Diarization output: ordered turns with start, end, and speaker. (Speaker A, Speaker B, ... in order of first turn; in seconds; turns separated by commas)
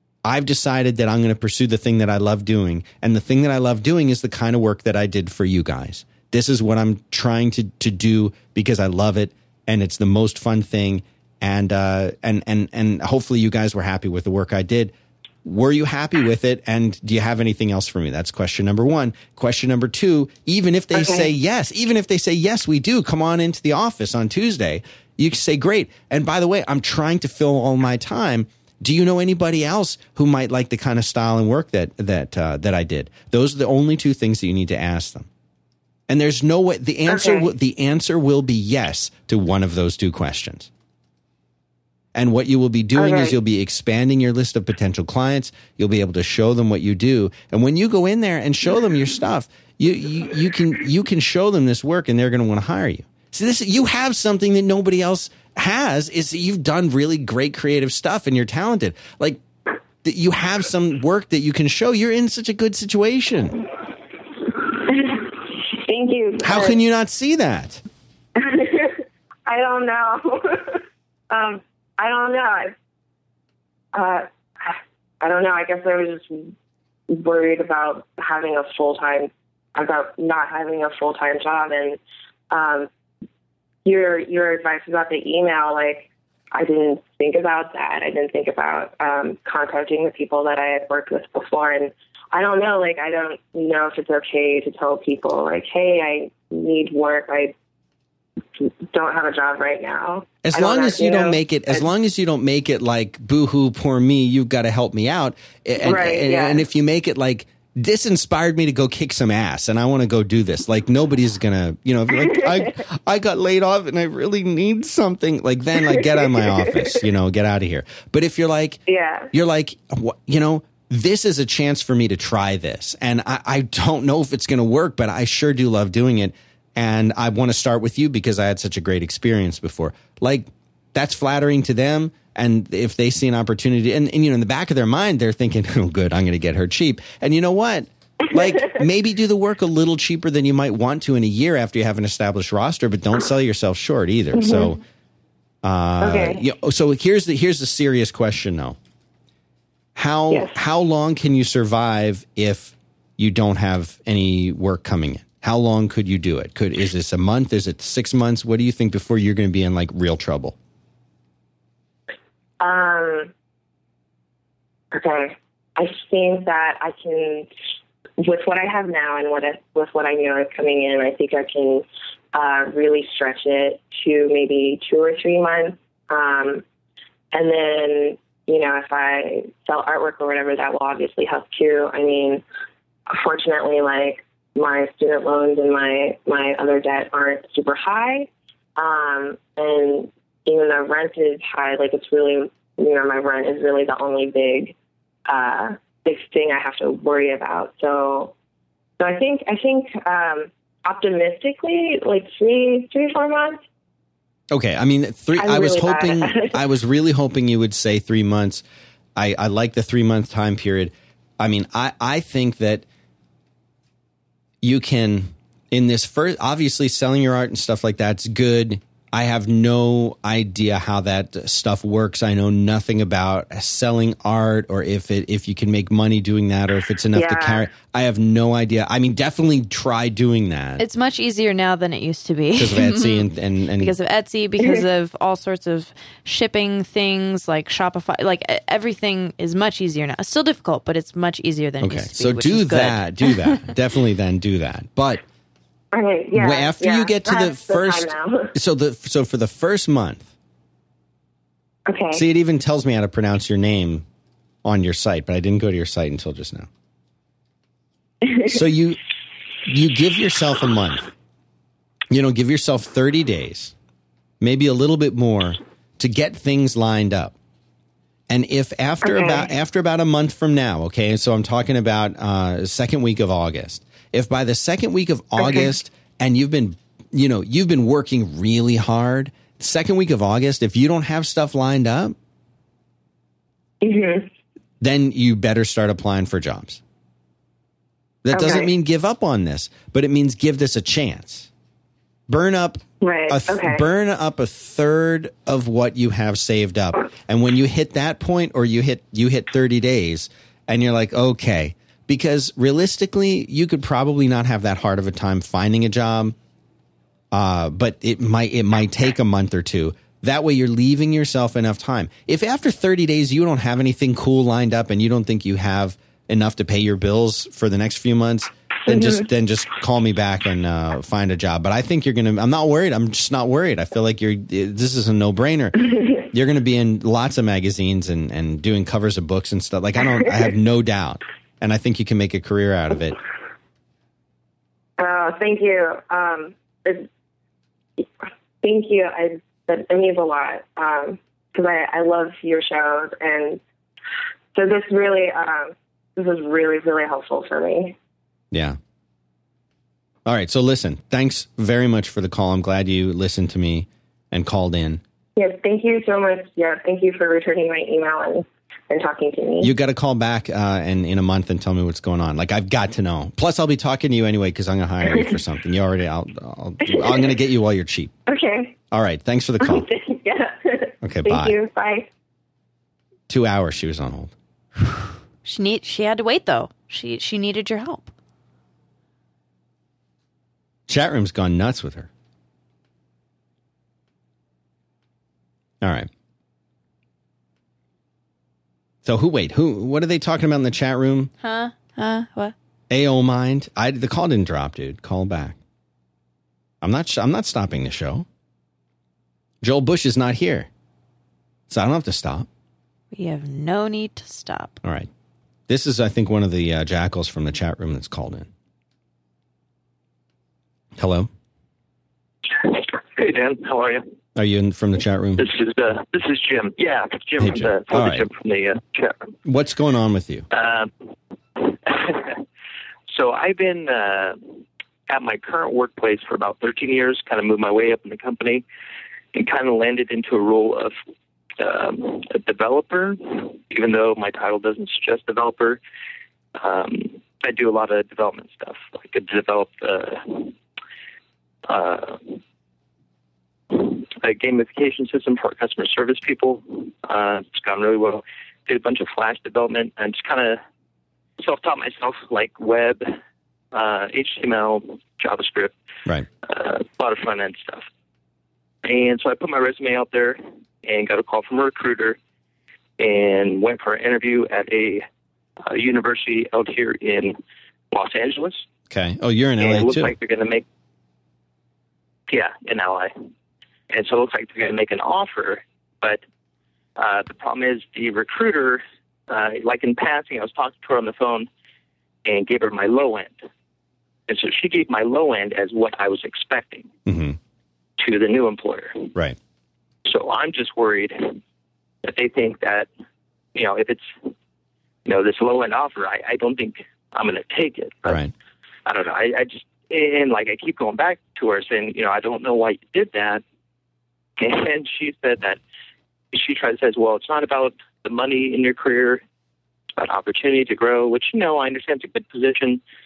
Speaker A: 0.2-14.9, Speaker A: 15.4-35.3, Speaker B: 20.9-21.3, Speaker A: 36.1-40.7, Speaker B: 37.1-37.5, Speaker A: 42.1-59.4, Speaker B: 43.0-43.4, Speaker A: 60.0-63.6, Speaker B: 64.7-66.8, Speaker A: 66.4-67.8, Speaker B: 68.4-72.7, Speaker B: 73.9-76.5, Speaker B: 77.1-82.0, Speaker B: 82.5-82.9, Speaker B: 83.8-97.5, Speaker B: 98.6-101.8, Speaker A: 100.4-118.8, Speaker B: 105.8-106.6, Speaker B: 112.2-112.7, Speaker B: 115.8-117.0, Speaker B: 118.9-119.3, Speaker A: 119.3-144.8, Speaker B: 144.3-144.7, Speaker A: 145.6-148.8, Speaker B: 146.0-146.4, Speaker A: 149.9-160.6, Speaker B: 150.3-150.6, Speaker B: 162.6-163.3, Speaker B: 164.9-167.5, Speaker B: 168.2-176.6, Speaker B: 177.3-182.4, Speaker B: 183.1-194.7, Speaker B: 195.3-198.3, Speaker B: 199.0-203.6, Speaker A: 204.5-208.6, Speaker B: 205.4-206.6, Speaker A: 209.2-212.8, Speaker A: 214.6-230.8, Speaker B: 227.1-227.7, Speaker C: 230.8-243.7, Speaker A: 232.6-233.9, Speaker A: 241.8-245.2, Speaker B: 245.9-248.5, Speaker A: 246.3-250.3, Speaker B: 251.9-252.3, Speaker A: 252.1-254.1, Speaker A: 254.6-256.7, Speaker B: 258.2-258.6, Speaker A: 258.4-259.0, Speaker A: 259.6-261.1, Speaker A: 262.1-263.7, Speaker A: 264.4-267.3, Speaker A: 268.3-282.1, Speaker B: 269.0-269.5, Speaker B: 275.4-275.7, Speaker B: 283.8-284.3, Speaker A: 284.8-286.8, Speaker A: 288.2-291.5, Speaker B: 288.3-288.7, Speaker A: 292.3-306.3, Speaker B: 293.0-293.8, Speaker A: 307.3-333.2, Speaker B: 335.0-337.1, Speaker B: 338.6-343.6, Speaker B: 344.6-347.9, Speaker A: 348.5-348.8, Speaker A: 350.3-355.0, Speaker B: 355.4-359.7, Speaker A: 359.6-368.1, Speaker B: 366.8-367.3, Speaker B: 368.3-368.8, Speaker A: 368.9-369.9, Speaker B: 369.6-372.1, Speaker A: 371.0-371.6, Speaker A: 373.3-374.3, Speaker C: 375.4-378.1, Speaker A: 380.9-382.1, Speaker A: 385.8-386.1, Speaker A: 389.1-391.3, Speaker C: 391.4-392.6, Speaker A: 392.9-395.6, Speaker A: 396.8-398.3, Speaker A: 399.6-400.7, Speaker A: 401.7-402.5, Speaker C: 403.1-404.8, Speaker A: 404.8-405.1, Speaker A: 405.7-408.5, Speaker A: 411.0-411.3, Speaker D: 412.5-414.0, Speaker A: 414.4-415.5, Speaker D: 415.4-419.3, Speaker A: 417.4-418.3, Speaker A: 419.4-420.5, Speaker D: 420.5-420.9, Speaker D: 421.6-422.4, Speaker D: 423.1-424.4, Speaker D: 425.1-428.6, Speaker D: 429.3-430.9, Speaker D: 431.6-435.8, Speaker D: 436.6-440.6, Speaker D: 441.7-442.4, Speaker D: 443.7-450.6, Speaker D: 451.4-453.2, Speaker D: 453.7-455.7, Speaker D: 456.4-457.9, Speaker D: 458.8-462.2, Speaker D: 463.0-465.1, Speaker D: 465.6-467.4, Speaker D: 467.9-468.6, Speaker A: 468.9-470.1, Speaker D: 469.6-470.6, Speaker D: 472.3-473.1, Speaker D: 473.9-476.2, Speaker D: 476.9-481.5, Speaker D: 482.2-483.4, Speaker D: 484.3-486.9, Speaker A: 487.1-487.4, Speaker D: 488.0-489.1, Speaker D: 490.1-491.4, Speaker D: 492.0-492.9, Speaker D: 493.6-494.1, Speaker D: 495.1-498.2, Speaker A: 498.1-498.3, Speaker D: 498.9-503.4, Speaker D: 504.4-505.6, Speaker D: 506.3-509.2, Speaker D: 510.0-512.8